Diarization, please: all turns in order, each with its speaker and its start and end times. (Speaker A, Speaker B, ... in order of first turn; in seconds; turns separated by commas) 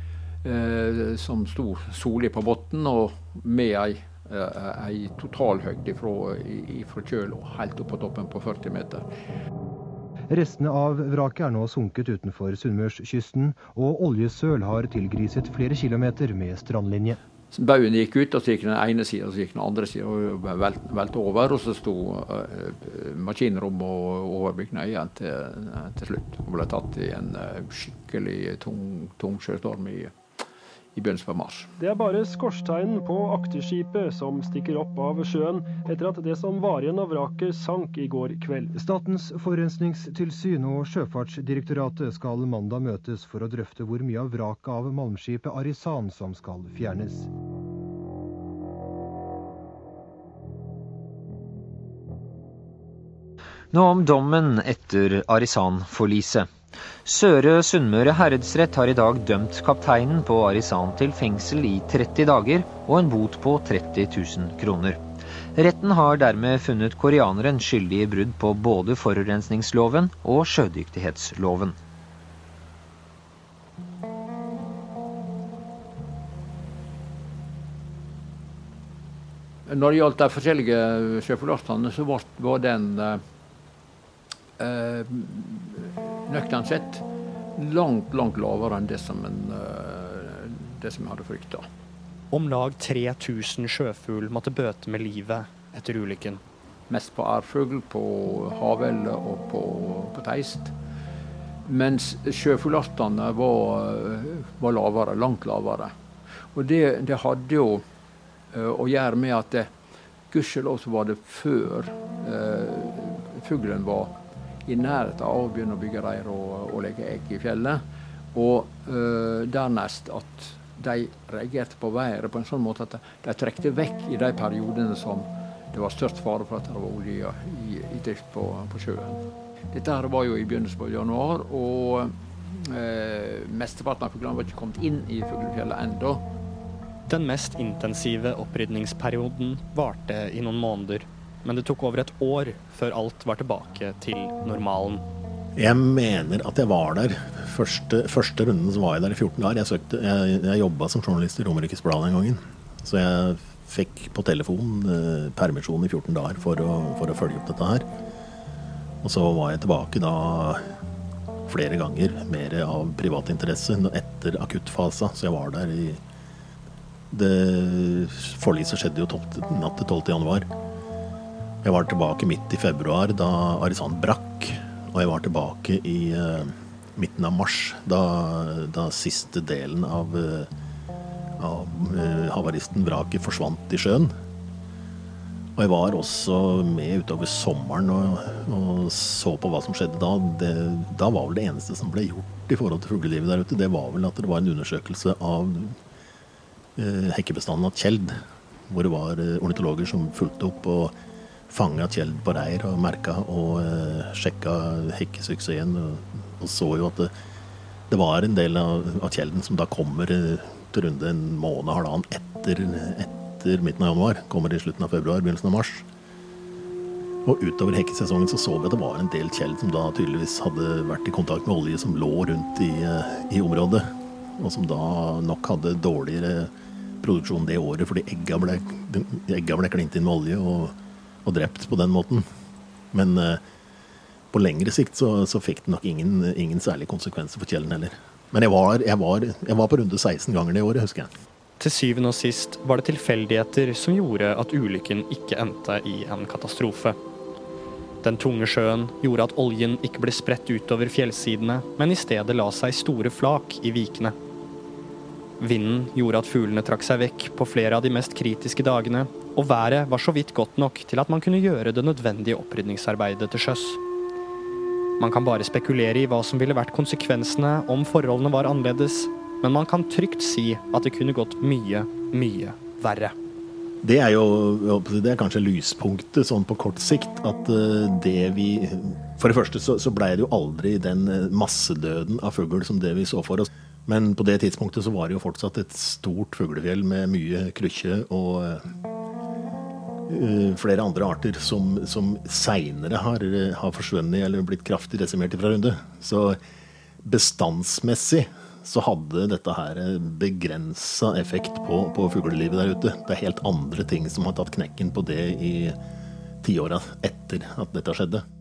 Speaker A: 0.4-9.1, Speaker B: 10.3-17.2, Speaker A: 17.5-30.1, Speaker A: 30.9-31.7, Speaker C: 31.8-38.7, Speaker B: 38.7-47.3, Speaker D: 53.7-65.0, Speaker D: 65.6-71.8, Speaker A: 79.7-83.2, Speaker A: 84.6-87.0, Speaker A: 87.6-91.7, Speaker E: 92.3-96.4, Speaker A: 96.9-100.7, Speaker A: 101.7-105.9, Speaker A: 106.5-107.8, Speaker A: 108.5-109.7, Speaker A: 110.3-114.1, Speaker A: 114.7-117.8, Speaker A: 118.3-136.2, Speaker E: 137.1-145.0, Speaker F: 145.6-157.9, Speaker F: 159.0-160.6, Speaker F: 161.5-166.0, Speaker F: 167.1-170.5, Speaker F: 171.6-180.5, Speaker F: 181.4-184.1, Speaker F: 185.6-195.8, Speaker F: 196.8-200.9, Speaker F: 201.5-207.1, Speaker F: 207.9-215.9, Speaker F: 217.2-223.9, Speaker F: 224.4-232.2, Speaker F: 232.9-233.4, Speaker F: 234.3-241.1, Speaker E: 241.6-247.0, Speaker E: 248.0-254.2, Speaker E: 255.4-263.8, Speaker E: 265.0-273.1, Speaker F: 273.8-288.6, Speaker F: 290.1-296.4, Speaker F: 297.0-305.8, Speaker F: 306.4-308.2